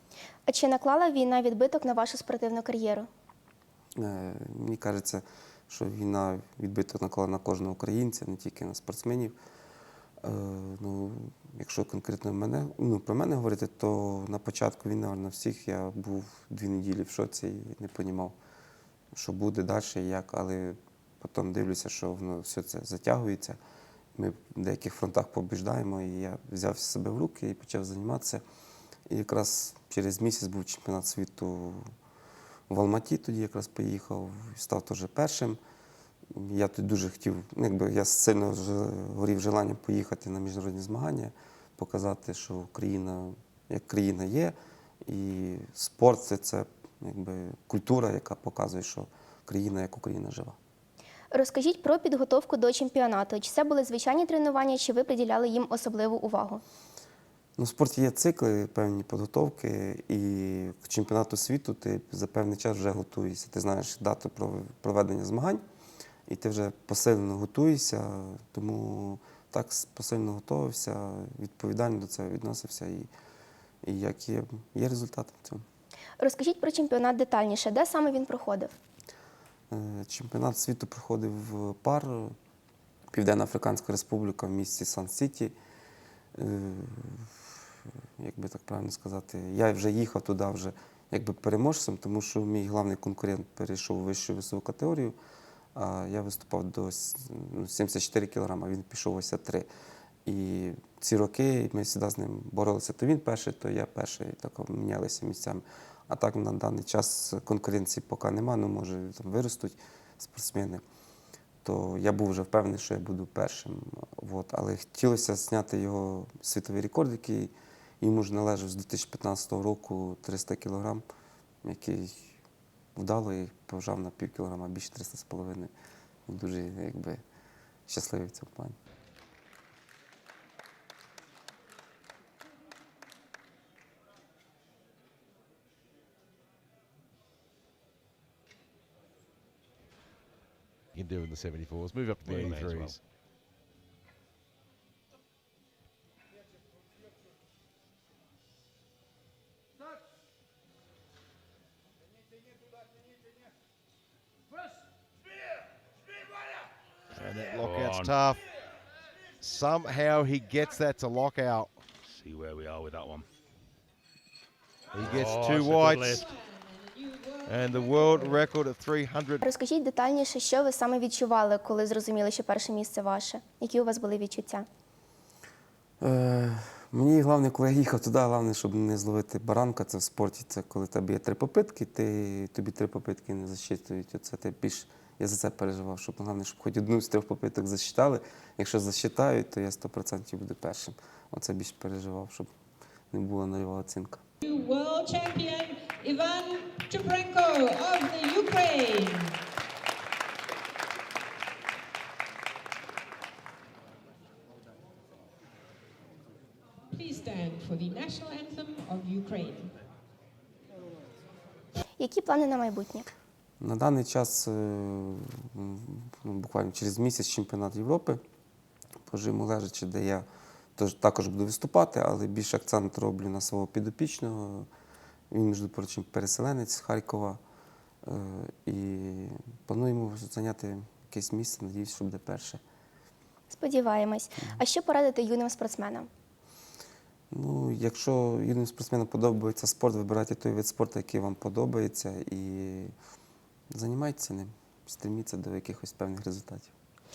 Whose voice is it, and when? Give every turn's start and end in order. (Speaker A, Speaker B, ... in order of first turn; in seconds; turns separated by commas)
Speaker A: 0.5-3.1, Speaker B: 4.0-9.3, Speaker B: 10.2-18.4, Speaker B: 19.1-23.6, Speaker B: 24.1-28.4, Speaker B: 29.1-31.9, Speaker B: 32.7-35.6, Speaker B: 36.3-50.5, Speaker A: 51.3-56.6, Speaker B: 57.6-65.6, Speaker B: 66.3-73.1, Speaker B: 73.8-75.6, Speaker A: 76.2-78.7, Speaker B: 79.7-82.3, Speaker B: 83.1-85.5, Speaker B: 86.3-87.5, Speaker B: 88.2-95.2, Speaker B: 95.7-99.7, Speaker B: 100.2-110.8, Speaker B: 111.6-121.0, Speaker B: 121.6-122.4, Speaker B: 123.0-125.7, Speaker B: 126.3-127.2, Speaker B: 127.9-128.8, Speaker C: 140.9-143.0, Speaker D: 142.2-143.0, Speaker C: 157.2-158.4, Speaker D: 157.2-158.3, Speaker C: 159.4-161.8, Speaker D: 162.1-163.3, Speaker C: 164.9-166.2, Speaker D: 165.0-166.3, Speaker E: 166.1-168.4, Speaker C: 167.4-169.4, Speaker A: 169.4-174.7, Speaker B: 176.0-192.5, Speaker B: 193.1-194.2, Speaker E: 194.4-199.4, Speaker E: 206.9-209.7, Speaker A: 212.0-213.1, Speaker B: 213.6-218.2, Speaker B: 219.1-220.2, Speaker B: 220.8-224.7, Speaker B: 225.3-227.4, Speaker B: 228.0-232.6, Speaker A: 233.5-236.1, Speaker B: 237.3-242.9, Speaker B: 243.7-246.7